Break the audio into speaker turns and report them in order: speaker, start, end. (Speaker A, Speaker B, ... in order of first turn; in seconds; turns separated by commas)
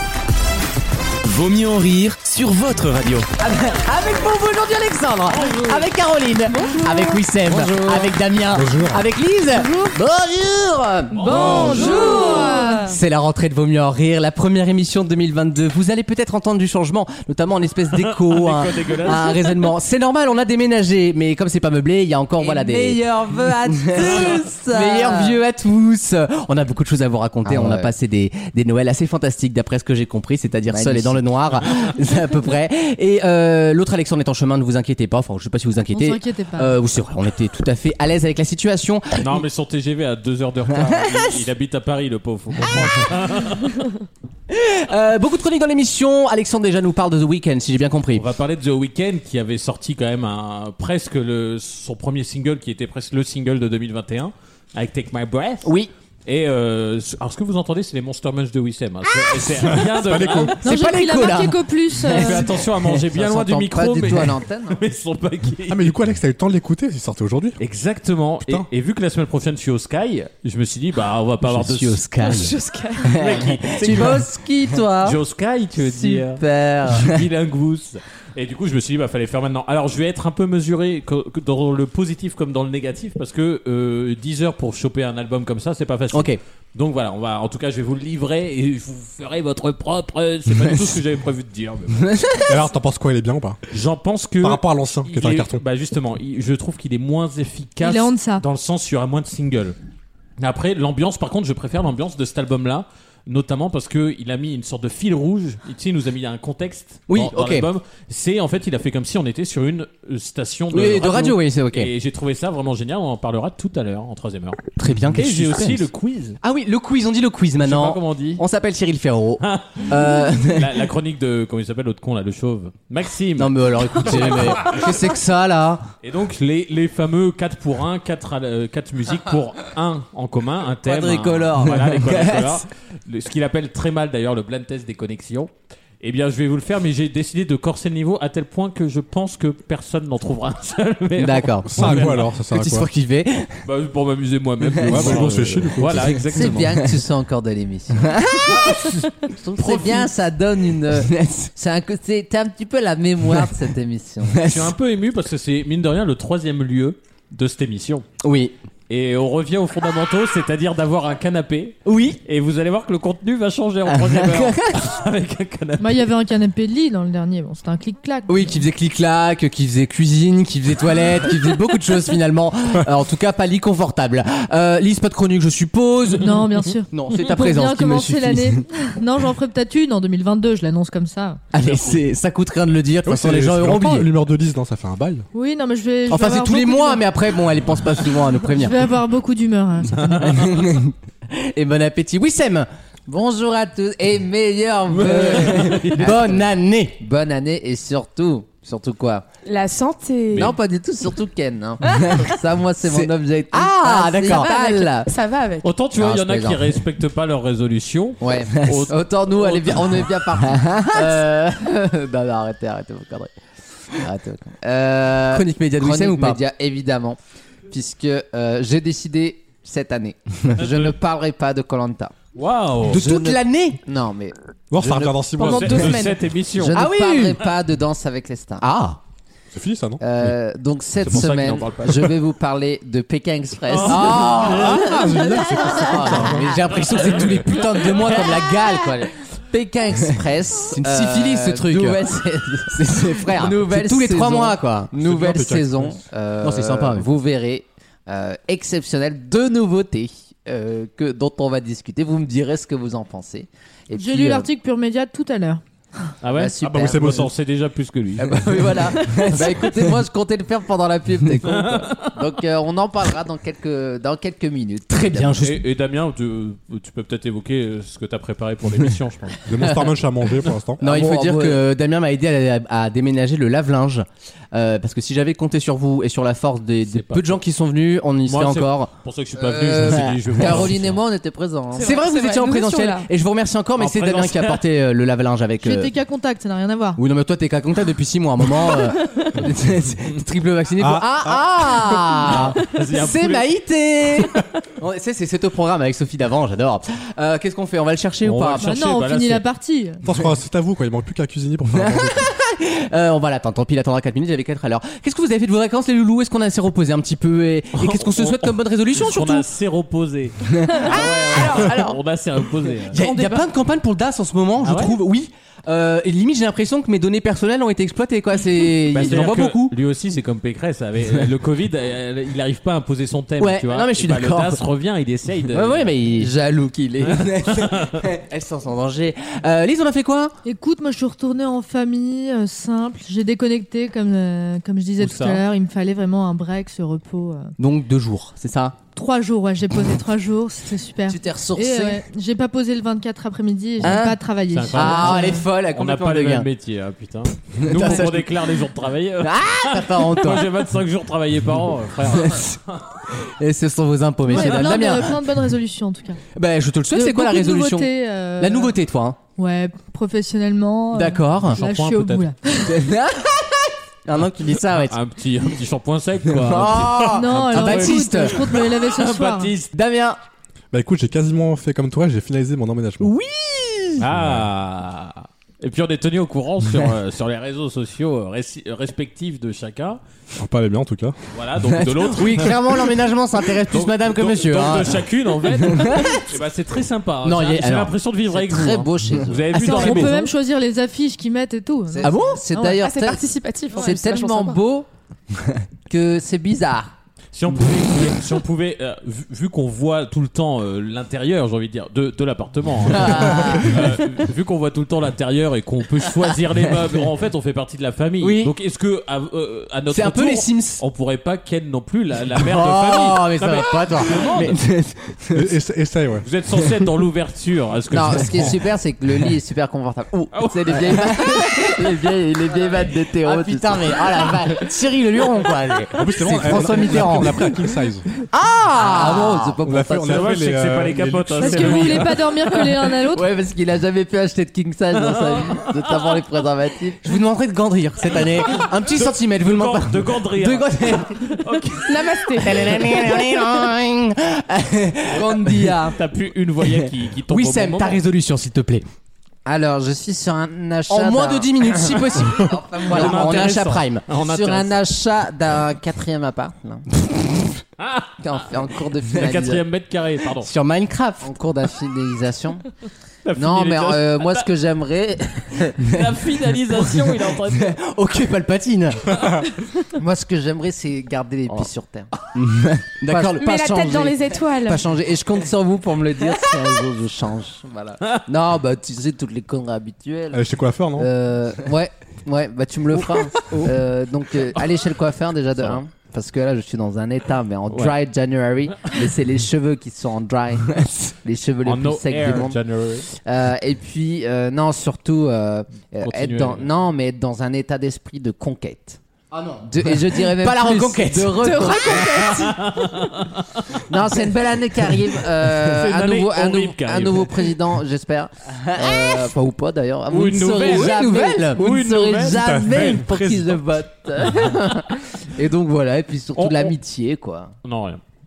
Speaker A: 1.2-3.3, Speaker B: 3.4-23.0, Speaker C: 6.5-7.2, Speaker D: 7.5-8.1, Speaker E: 8.5-9.0, Speaker C: 11.1-13.0, Speaker F: 11.1-12.2, Speaker G: 11.4-12.9, Speaker F: 18.0-19.5, Speaker D: 22.4-25.4, Speaker B: 23.8-39.2, Speaker D: 27.4-27.9, Speaker D: 30.7-31.2, Speaker G: 35.9-36.7, Speaker F: 39.2-43.7, Speaker B: 44.5-48.2, Speaker F: 48.1-55.7, Speaker B: 55.6-55.9, Speaker F: 56.3-60.6, Speaker E: 59.7-60.6, Speaker B: 60.6-62.9, Speaker G: 60.6-62.5, Speaker F: 62.1-65.9, Speaker D: 63.1-64.8, Speaker E: 65.7-67.6, Speaker F: 67.6-72.0, Speaker B: 71.4-72.5, Speaker C: 72.2-73.3, Speaker B: 73.1-74.3, Speaker F: 73.1-74.3, Speaker D: 73.8-75.2, Speaker F: 75.0-92.0, Speaker D: 75.8-76.9, Speaker B: 86.1-86.4, Speaker B: 92.0-92.5, Speaker E: 92.5-93.6, Speaker F: 93.7-99.8, Speaker E: 94.4-95.6, Speaker G: 97.8-98.4, Speaker F: 100.4-114.6, Speaker B: 107.1-107.7, Speaker B: 110.7-111.9, Speaker B: 114.8-115.8, Speaker F: 115.1-116.4, Speaker B: 116.4-120.8, Speaker F: 117.6-118.4, Speaker F: 119.4-124.9, Speaker B: 123.4-125.8, Speaker F: 126.0-142.2, Speaker B: 130.8-132.7, Speaker B: 141.2-143.6, Speaker E: 141.7-142.9, Speaker F: 143.7-146.9, Speaker B: 144.7-146.8, Speaker E: 144.8-146.2, Speaker D: 146.3-148.1, Speaker B: 148.0-148.9, Speaker D: 149.2-154.4, Speaker B: 149.6-150.0, Speaker F: 149.6-149.9, Speaker B: 150.9-151.5, Speaker B: 154.2-154.7, Speaker F: 154.4-158.0, Speaker B: 158.2-158.6, Speaker F: 158.9-166.1, Speaker B: 161.8-162.2, Speaker B: 163.9-164.8, Speaker G: 165.8-168.5, Speaker B: 168.3-178.6, Speaker G: 176.2-181.4, Speaker B: 181.5-184.1, Speaker E: 183.0-185.2, Speaker G: 185.3-187.0, Speaker B: 186.1-188.8, Speaker G: 188.6-190.1, Speaker F: 189.9-190.5, Speaker B: 190.2-192.7, Speaker D: 193.1-196.4, Speaker F: 194.9-196.2, Speaker B: 195.0-197.0, Speaker D: 197.0-199.2, Speaker C: 199.4-200.6, Speaker D: 200.3-204.5, Speaker B: 202.8-205.1, Speaker C: 204.3-205.7, Speaker F: 205.6-210.1, Speaker D: 206.0-206.6, Speaker D: 208.2-213.3, Speaker B: 210.4-211.2, Speaker D: 214.0-217.2, Speaker B: 215.3-216.4, Speaker D: 217.7-222.2, Speaker F: 220.6-220.9, Speaker F: 222.3-223.3, Speaker B: 222.8-223.8, Speaker D: 223.0-225.3, Speaker E: 224.7-226.1, Speaker C: 225.3-226.2, Speaker F: 225.4-226.8, Speaker D: 226.6-228.7, Speaker B: 226.7-227.5, Speaker B: 228.6-229.0, Speaker E: 229.5-230.0, Speaker D: 230.0-237.3, Speaker F: 231.0-232.1, Speaker F: 233.7-234.8, Speaker B: 233.8-238.8, Speaker E: 234.3-236.5, Speaker F: 237.0-238.0, Speaker D: 238.0-254.5, Speaker B: 240.7-242.1, Speaker B: 242.7-245.0, Speaker E: 245.0-246.0, Speaker B: 246.4-247.1, Speaker G: 253.9-255.6, Speaker F: 256.2-259.4, Speaker D: 256.4-257.2, Speaker E: 256.6-257.3, Speaker D: 258.2-265.4, Speaker B: 258.9-259.7, Speaker F: 261.4-262.2, Speaker B: 264.9-265.6, Speaker F: 265.4-269.4, Speaker E: 269.4-270.8, Speaker B: 270.8-278.9, Speaker D: 270.8-271.6, Speaker F: 276.9-277.4, Speaker F: 278.2-281.0, Speaker D: 279.4-282.0, Speaker B: 279.7-280.7, Speaker C: 281.8-283.1, Speaker B: 281.8-285.9, Speaker F: 283.8-284.6, Speaker G: 285.6-287.0, Speaker B: 287.0-298.6, Speaker C: 288.9-289.3, Speaker E: 290.8-292.0, Speaker F: 292.2-293.4, Speaker F: 298.2-299.4, Speaker G: 298.6-300.0, Speaker E: 300.1-302.2, Speaker B: 301.8-309.5, Speaker F: 307.8-313.0, Speaker B: 310.6-312.0, Speaker C: 311.1-311.6, Speaker B: 312.9-319.8, Speaker C: 313.0-313.5, Speaker F: 314.6-315.0, Speaker F: 318.9-325.9, Speaker B: 323.4-324.6, Speaker B: 325.5-326.3, Speaker D: 326.1-327.5, Speaker F: 327.0-328.0, Speaker B: 327.1-330.3, Speaker G: 330.4-337.5, Speaker F: 335.0-335.4, Speaker B: 337.6-338.8, Speaker G: 338.9-345.4, Speaker D: 341.1-342.0, Speaker B: 343.8-344.2, Speaker F: 344.5-352.8, Speaker B: 344.7-346.5, Speaker B: 347.6-348.3, Speaker B: 349.2-350.5, Speaker B: 352.1-352.6, Speaker B: 353.1-355.2, Speaker G: 354.3-356.2, Speaker F: 354.3-354.9, Speaker B: 356.4-359.2, Speaker G: 356.9-358.8, Speaker G: 359.4-362.9, Speaker B: 360.9-361.6, Speaker F: 361.5-362.3, Speaker B: 362.7-364.9, Speaker F: 364.9-369.7, Speaker B: 366.3-368.4, Speaker G: 367.1-369.5, Speaker B: 369.7-370.2, Speaker E: 370.7-373.1, Speaker B: 373.0-374.0, Speaker F: 374.0-380.0, Speaker E: 374.1-374.5, Speaker E: 380.4-381.1, Speaker F: 381.3-382.9, Speaker B: 381.6-385.0, Speaker F: 383.7-390.2, Speaker B: 385.6-386.2, Speaker B: 387.2-387.9, Speaker D: 388.3-389.5, Speaker B: 389.5-390.3, Speaker G: 389.5-392.1, Speaker D: 391.9-394.9, Speaker B: 392.0-392.4, Speaker C: 392.5-394.6, Speaker D: 395.9-396.9, Speaker F: 397.3-414.6, Speaker B: 402.9-404.1, Speaker B: 408.2-408.5, Speaker B: 409.9-410.8, Speaker B: 412.4-415.5, Speaker E: 415.3-416.2, Speaker F: 416.2-418.6, Speaker D: 417.9-424.4, Speaker F: 420.3-421.3, Speaker B: 421.3-422.6, Speaker B: 423.2-427.5, Speaker E: 425.9-428.1, Speaker B: 428.3-429.6, Speaker D: 428.8-430.4, Speaker E: 429.6-432.0, Speaker F: 430.1-432.2, Speaker G: 431.4-433.2, Speaker D: 432.8-437.0, Speaker F: 434.9-436.2, Speaker B: 437.0-441.1, Speaker F: 438.8-442.1, Speaker C: 441.9-442.8, Speaker B: 442.3-445.8, Speaker D: 445.1-445.9, Speaker F: 445.9-448.0, Speaker B: 446.6-448.9, Speaker D: 449.4-456.9, Speaker B: 450.9-454.1, Speaker F: 452.9-454.8, Speaker F: 457.8-458.5, Speaker D: 458.2-459.6, Speaker F: 459.1-460.5, Speaker B: 460.4-461.3, Speaker D: 461.2-462.6, Speaker F: 463.2-464.5, Speaker D: 463.4-465.8, Speaker F: 465.8-467.8, Speaker B: 467.4-469.2, Speaker D: 470.0-472.1, Speaker B: 472.3-474.1, Speaker D: 473.1-474.0, Speaker C: 473.4-474.8, Speaker D: 474.7-480.4, Speaker E: 480.3-481.1, Speaker D: 480.9-492.6, Speaker F: 485.6-485.8, Speaker F: 491.6-493.1, Speaker D: 493.2-499.0, Speaker F: 496.0-496.7, Speaker B: 499.3-501.7, Speaker D: 499.6-502.1, Speaker C: 501.4-502.6, Speaker F: 502.1-503.6, Speaker D: 503.9-517.5, Speaker F: 505.7-507.5, Speaker B: 508.7-509.2, Speaker F: 510.1-512.4, Speaker B: 510.2-512.2, Speaker E: 512.2-513.6, Speaker F: 516.4-516.7, Speaker F: 517.6-518.0